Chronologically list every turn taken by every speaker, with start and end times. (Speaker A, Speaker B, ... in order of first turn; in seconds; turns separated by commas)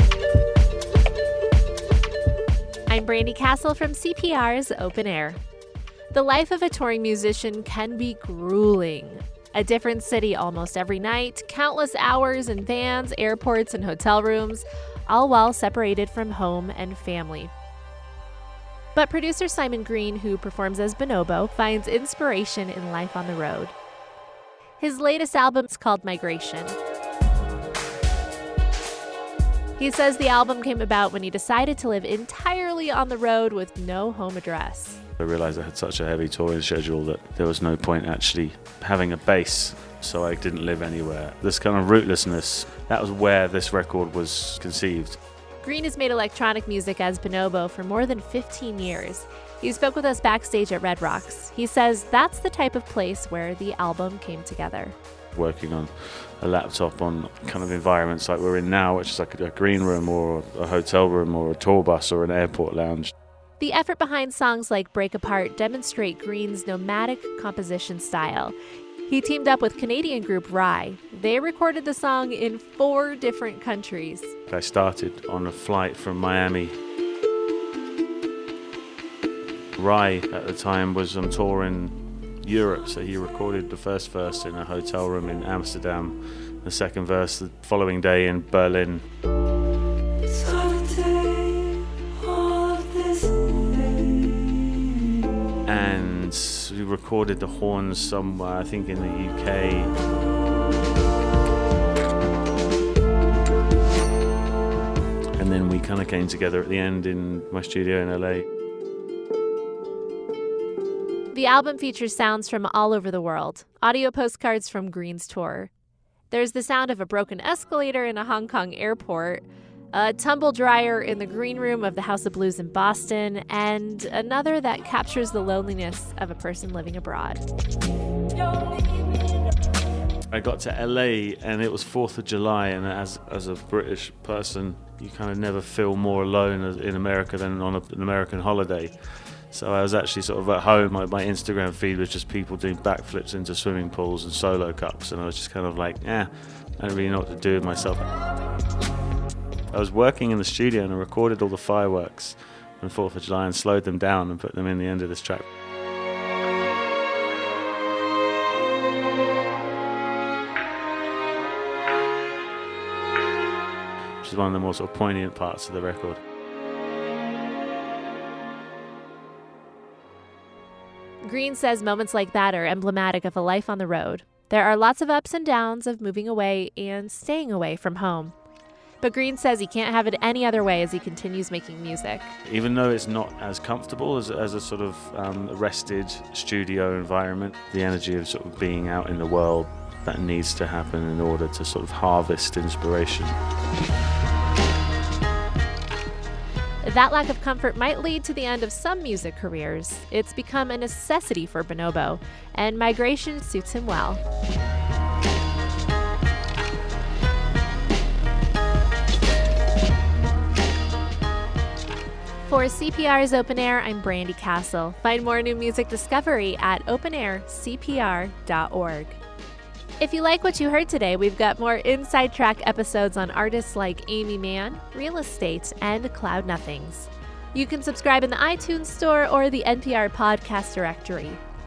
Speaker A: 2.9-5.4, Speaker A: 6.1-17.5, Speaker A: 18.9-23.7, Speaker A: 24.8-26.8, Speaker A: 29.8-35.0, Speaker B: 35.2-45.2, Speaker A: 45.6-55.0, Speaker B: 55.3-63.1, Speaker A: 63.6-68.5, Speaker A: 69.1-74.3, Speaker B: 74.5-76.7, Speaker B: 79.8-89.0, Speaker B: 95.7-99.9, Speaker B: 105.3-108.5, Speaker A: 111.3-115.7, Speaker A: 116.3-127.4, Speaker B: 130.3-148.0, Speaker B: 149.7-155.4, Speaker B: 164.2-166.2, Speaker A: 171.2-178.3, Speaker A: 179.0-182.3, Speaker B: 182.4-193.4, Speaker A: 196.8-204.2, Speaker A: 212.4-219.2, Speaker A: 220.0-231.4